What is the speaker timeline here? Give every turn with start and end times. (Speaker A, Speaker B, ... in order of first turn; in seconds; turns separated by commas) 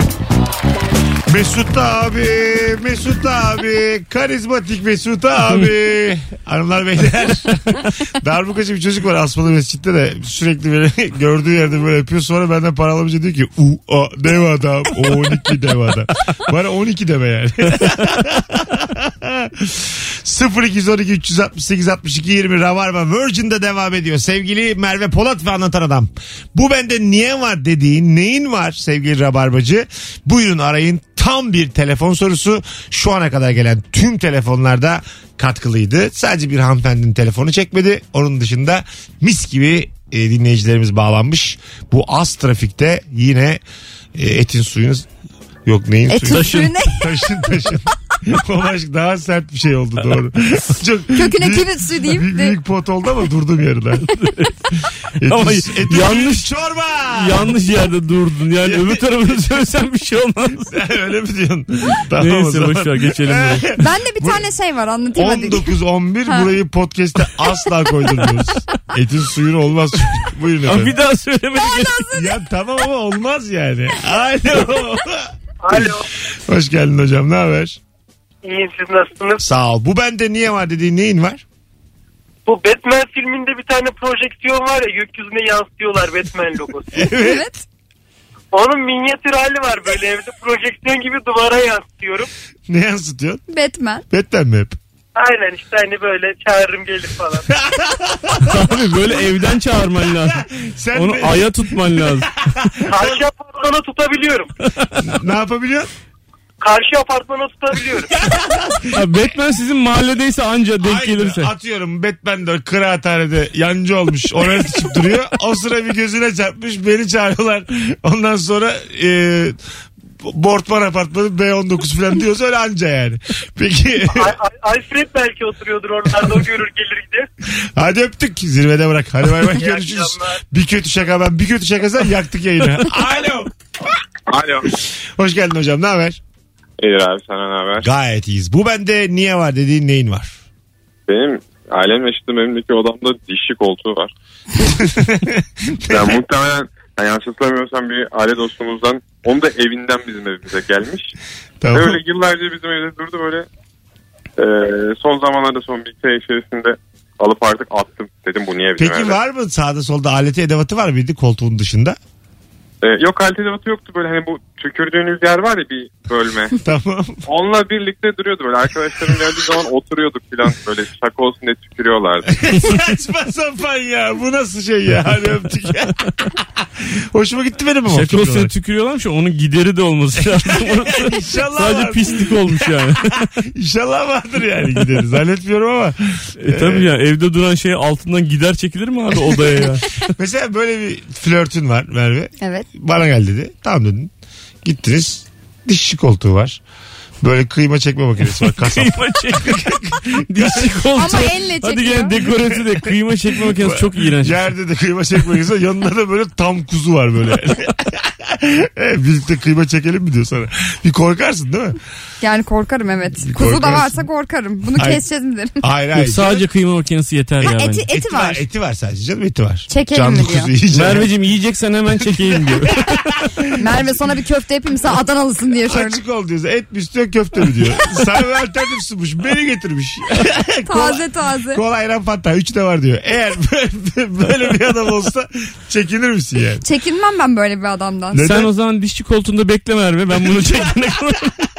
Speaker A: 1.2-43.6, Speaker A: 44.1-45.1, Speaker A: 45.6-54.2, Speaker B: 46.1-47.9, Speaker C: 46.3-46.7, Speaker B: 51.1-52.6, Speaker C: 54.2-54.5, Speaker A: 55.2-57.6, Speaker C: 55.2-56.5, Speaker C: 57.1-60.7, Speaker A: 58.6-59.4, Speaker A: 60.6-64.4, Speaker C: 62.2-63.7, Speaker B: 63.8-65.7, Speaker A: 65.2-71.0, Speaker C: 70.7-72.2, Speaker B: 71.5-72.4, Speaker A: 72.2-77.8, Speaker D: 75.6-76.1, Speaker D: 78.4-79.4, Speaker A: 79.4-81.4, Speaker D: 82.5-87.1, Speaker A: 86.9-87.4, Speaker B: 87.0-87.7, Speaker D: 88.5-92.3, Speaker A: 92.7-93.4, Speaker B: 93.5-94.0, Speaker A: 94.1-94.8, Speaker D: 95.2-97.5, Speaker A: 97.6-98.8, Speaker C: 98.4-102.5, Speaker A: 100.3-103.2, Speaker D: 102.8-104.5, Speaker C: 104.7-105.0, Speaker A: 105.0-105.9, Speaker D: 106.6-108.1, Speaker A: 108.1-109.1, Speaker C: 108.9-111.5, Speaker A: 110.8-119.6, Speaker A: 120.2-124.3, Speaker D: 124.1-127.3, Speaker A: 127.6-133.5, Speaker D: 129.5-130.4, Speaker E: 134.3-134.7, Speaker A: 134.9-136.2, Speaker E: 136.8-137.9, Speaker A: 137.8-140.4, Speaker E: 141.1-144.1, Speaker A: 144.6-146.2, Speaker E: 145.9-151.1, Speaker A: 151.6-152.0, Speaker E: 151.7-153.5, Speaker E: 154.4-159.2, Speaker A: 158.8-162.0, Speaker E: 162.8-166.6, Speaker A: 166.6-167.2, Speaker E: 167.3-172.6, Speaker A: 172.3-178.5, Speaker C: 177.9-183.2, Speaker A: 180.2-186.9, Speaker C: 186.4-190.1, Speaker A: 189.3-194.1, Speaker B: 192.4-192.7, Speaker A: 194.6-196.6, Speaker A: 197.2-200.7, Speaker C: 198.5-204.5, Speaker B: 201.0-202.2, Speaker A: 203.5-211.8, Speaker B: 212.2-215.6, Speaker A: 213.2-214.1, Speaker A: 214.8-215.0, Speaker A: 215.6-216.4, Speaker C: 216.0-217.8, Speaker B: 217.4-218.4, Speaker A: 217.9-221.1, Speaker B: 219.7-220.5, Speaker C: 220.7-223.1, Speaker A: 222.0-223.8, Speaker B: 223.6-226.0, Speaker A: 225.7-236.6, Speaker B: 230.7-231.6, Speaker B: 236.6-238.3, Speaker A: 238.1-238.5, Speaker C: 238.2-241.4, Speaker A: 240.2-240.6